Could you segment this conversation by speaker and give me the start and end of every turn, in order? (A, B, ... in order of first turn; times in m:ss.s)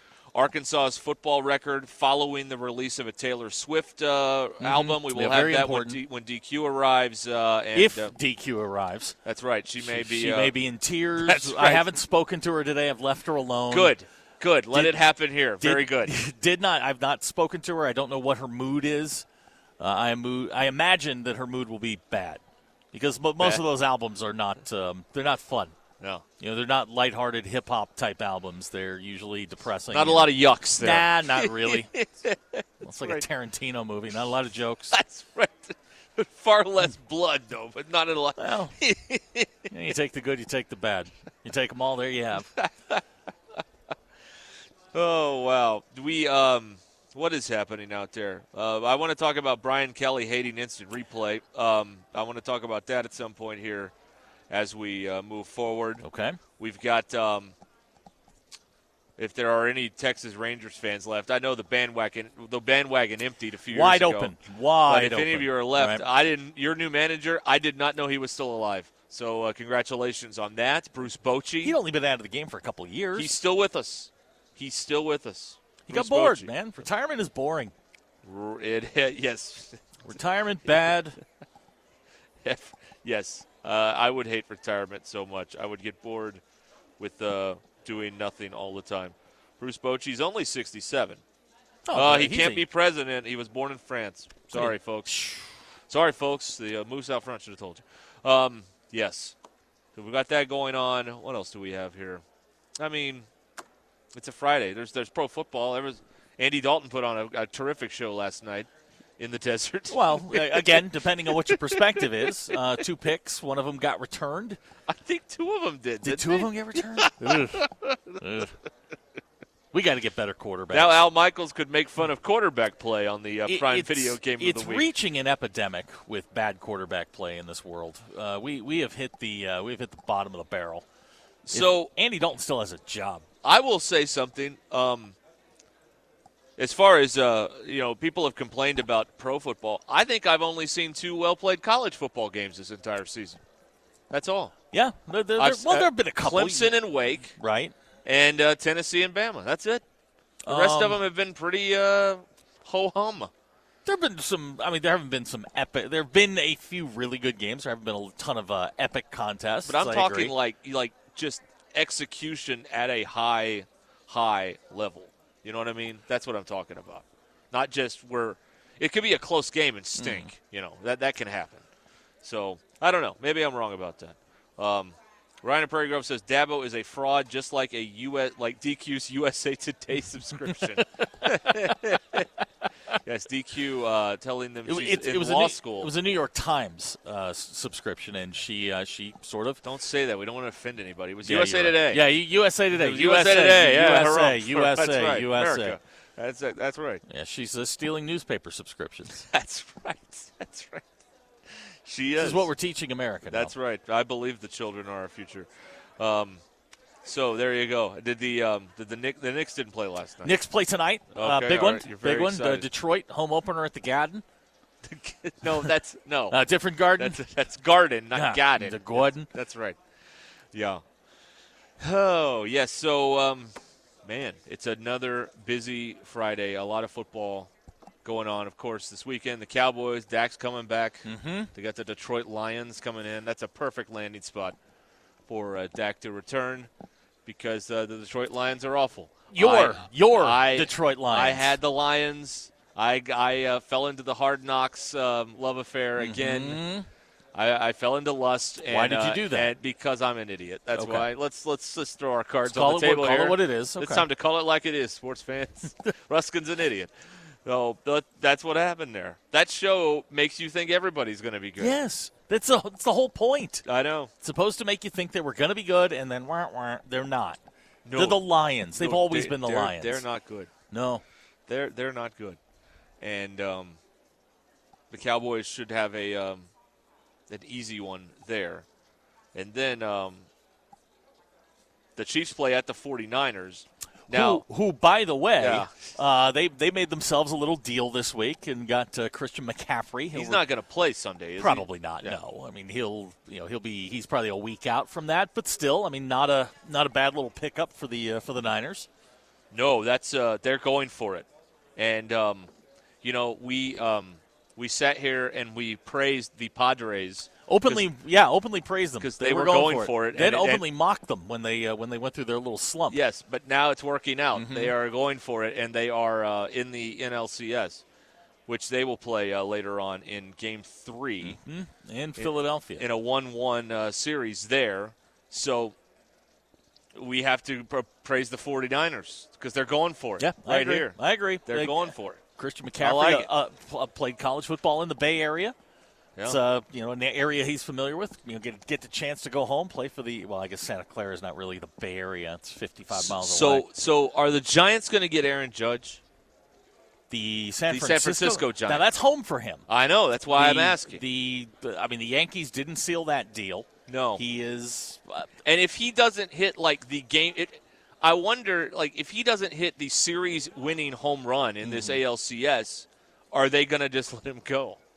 0:00.3-0:08.1 A
0:04.6-0:06.0 B
0:07.7-0:09.2 B
0:09.2-0:10.5 A
0:09.8-0:13.9 B
0:11.2-0:11.8 A
0:13.7-0:16.2 A
0:14.7-0:15.0 B
0:15.6-0:19.2 B
0:19.8-0:22.4 B
0:22.9-0:25.7 B
0:26.4-0:31.9 B
0:29.9-0:33.2 A
0:32.8-0:34.9 B
0:34.9-0:39.5 A
0:38.4-0:38.7 B
0:39.7-0:42.5 B
0:42.6-0:43.0 A
0:44.9-0:53.9 A
0:54.5-0:56.0 A
0:56.0-0:56.4 B
0:56.6-0:57.5 A
0:59.2-1:04.3 A
1:03.7-1:06.0 B
1:04.9-1:11.8 A
1:11.6-1:13.3 B
1:13.1-1:16.5 A
1:15.9-1:17.7 B
1:18.2-1:19.8 A
1:20.0-1:21.2 B
1:22.4-1:26.4 A
1:27.0-1:31.2 A
1:31.9-1:32.6 B
1:31.9-1:35.2 A
1:34.5-1:35.4 B
1:35.9-1:39.3 A
1:40.0-1:42.2 A
1:42.8-1:43.3 A
1:44.1-1:52.0 A
1:49.9-1:54.6 B
1:54.9-1:58.2 A
1:56.0-1:57.6 B
1:58.2-1:58.5 B
1:59.7-2:01.0 B
2:00.7-2:04.8 A
2:03.5-2:10.8 B
2:11.4-2:11.9 A
2:11.5-2:13.2 B
2:13.4-2:15.2 A
2:16.6-2:23.4 A
2:24.1-2:24.5 A
2:24.7-2:26.8 B
2:25.4-2:27.4 A
2:27.3-2:27.7 B
2:28.0-2:29.8 A
2:30.4-2:31.0 B
2:30.5-2:33.3 A
2:33.8-2:40.3 B
2:39.7-2:51.6 A
2:50.0-2:50.3 B
2:52.2-3:02.3 A
3:03.0-3:05.9 A
3:04.6-3:09.6 B
3:09.6-3:12.0 A
3:11.2-3:15.8 B
3:12.7-3:17.0 A
3:17.1-3:19.2 B
3:19.2-3:20.8 A
3:21.8-3:22.5 A
3:22.2-3:23.5 B
3:23.3-3:26.4 A
3:27.0-3:30.4 A
3:30.2-3:34.2 B
3:31.1-3:32.7 A
3:34.8-3:36.4 A
3:36.3-3:37.2 B
3:37.0-3:39.8 A
3:38.1-3:39.3 B
3:40.5-3:40.8 A
3:41.8-3:43.5 A
3:44.0-3:47.5 A
3:48.0-3:54.6 A
3:51.0-3:51.5 B
3:55.3-3:56.7 A
3:57.2-4:06.6 A
3:59.3-4:01.6 B
4:06.0-4:06.9 B
4:07.3-4:16.9 A
4:08.7-4:09.5 B
4:10.7-4:11.1 B
4:12.5-4:14.1 B
4:17.4-4:21.8 A
4:21.6-4:23.6 B
4:23.6-4:24.1 A
4:24.2-4:27.4 B
4:27.8-4:30.5 A
4:28.0-4:30.0 B
4:30.7-4:31.0 B
4:31.5-4:32.4 A
4:33.0-4:33.8 A
4:34.9-4:36.5 A
4:37.3-4:38.6 A
4:39.3-4:40.3 A
4:42.0-4:44.4 A
4:44.1-4:50.4 B
4:45.4-4:45.8 A
4:50.1-4:52.2 A
4:51.4-4:58.9 B
4:59.5-5:02.5 A
5:03.0-5:07.9 A
5:07.5-5:13.0 B
5:09.0-5:10.6 A
5:12.9-5:17.8 A
5:14.3-5:14.7 B
5:18.5-5:21.4 A
5:21.2-5:22.8 B
5:22.2-5:25.7 A
5:26.9-5:32.2 A
5:30.2-5:35.5 B
5:32.8-5:33.3 A
5:36.2-5:43.6 B
5:42.9-5:46.0 A
5:47.1-5:49.6 B
5:47.7-5:48.9 A
5:49.7-5:51.0 A
5:50.3-5:55.3 B
5:53.9-5:54.2 A
5:55.4-6:04.8 A
6:01.6-6:02.0 B